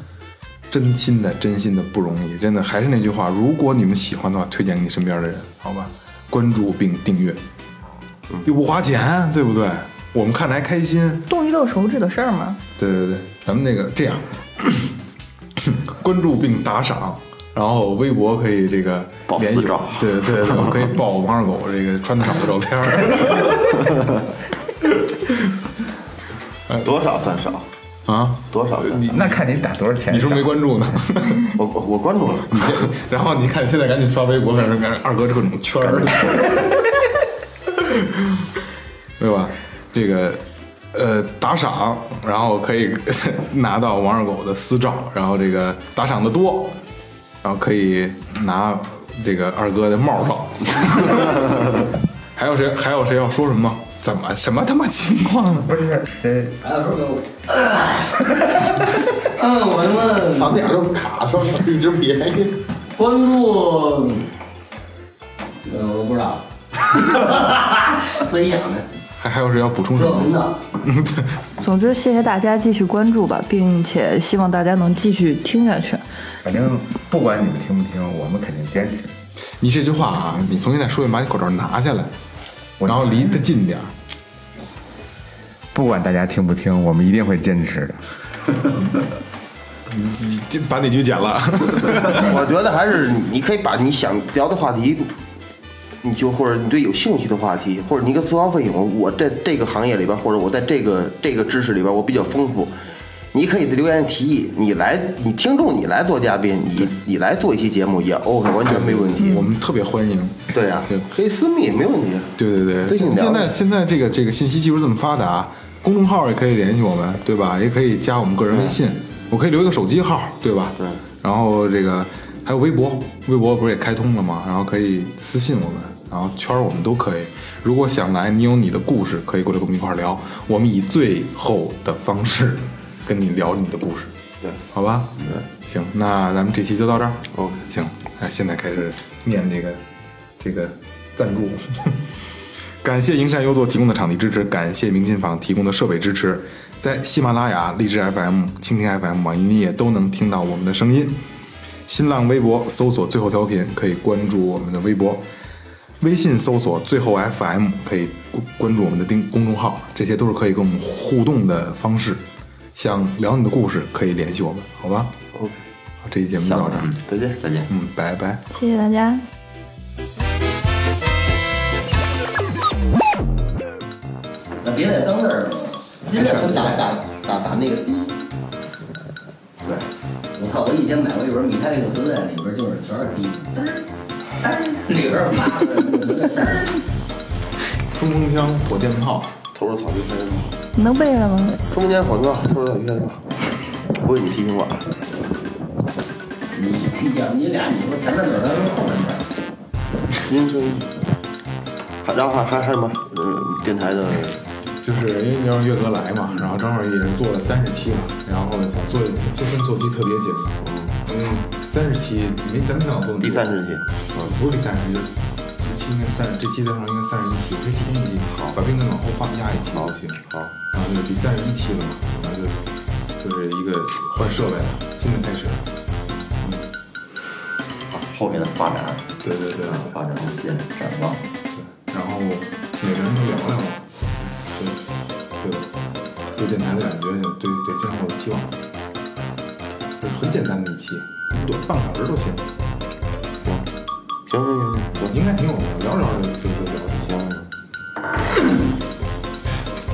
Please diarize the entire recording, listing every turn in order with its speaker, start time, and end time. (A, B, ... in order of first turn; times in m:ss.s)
0:00.7-0:07.4 A
0:08.4-0:11.3 A
0:11.3-0:12.6 B
0:12.8-0:15.0 A
0:15.6-0:24.0 A
0:19.3-0:20.9 C
0:24.8-0:25.5 A
0:26.7-0:27.7 D
0:28.1-0:29.3 A
0:28.5-0:29.2 D
0:29.0-0:30.7 E
0:30.1-0:31.6 A
0:31.5-0:32.8 D
0:32.5-0:36.9 A
0:37.7-0:38.5 A
0:39.2-0:46.8 A
0:47.4-0:55.8 A
0:55.6-0:56.6 E
0:56.6-1:00.7 F
1:00.3-1:02.6 D
1:03.0-1:04.3 F
1:05.6-1:08.9 F
1:09.2-1:11.3 A
1:09.9-1:10.6 F
1:11.6-1:16.0 B
1:16.4-1:19.1 E
1:19.6-1:22.1 A
1:22.8-1:23.4 E
1:22.8-1:23.9 A
1:25.7-1:28.0 E
1:29.9-1:32.4 A
1:32.1-1:35.1 D
1:36.0-1:42.8 D
1:43.3-1:49.5 D
1:48.6-1:51.1 A
1:50.5-1:53.5 D
1:52.4-2:14.1 A
2:14.7-2:19.8 A
2:17.3-2:17.6 D
2:20.4-2:22.0 A
2:22.8-2:31.2 A
2:31.9-2:35.2 A
2:36.0-2:42.2 A
2:42.8-2:45.2 A
2:45.3-2:45.6 D
2:46.0-2:46.9 A
2:46.4-2:47.7 C
2:47.1-2:47.4 D
2:47.7-2:48.4 A
2:48.5-2:49.2 B
2:54.6-2:56.9 F
2:56.1-2:58.2 D
3:00.4-3:03.8 F
3:04.4-3:06.8 F
3:07.9-3:09.4 A
3:09.5-3:10.6 D
3:10.8-3:11.6 B
3:11.7-3:13.3 D
3:13.9-3:14.9 D
3:16.5-3:19.2 F
3:20.2-3:20.9 D
3:22.0-3:24.4 D
3:24.8-3:33.6 A
3:30.6-3:31.0 D
3:33.2-3:34.3 D
3:34.2-3:42.6 A
3:39.7-3:40.5 D
3:43.2-3:45.7 A
3:47.9-3:49.1 C
3:49.2-3:50.0 A
3:49.6-3:51.2 C
3:51.6-3:53.9 A
3:54.5-3:54.8 A
3:55.4-3:55.7 A
3:56.3-3:58.6 A
4:00.0-4:02.5 A
4:03.4-4:03.7 D
4:04.3-4:05.2 D
4:05.1-4:07.2 A
4:07.0-4:07.5 D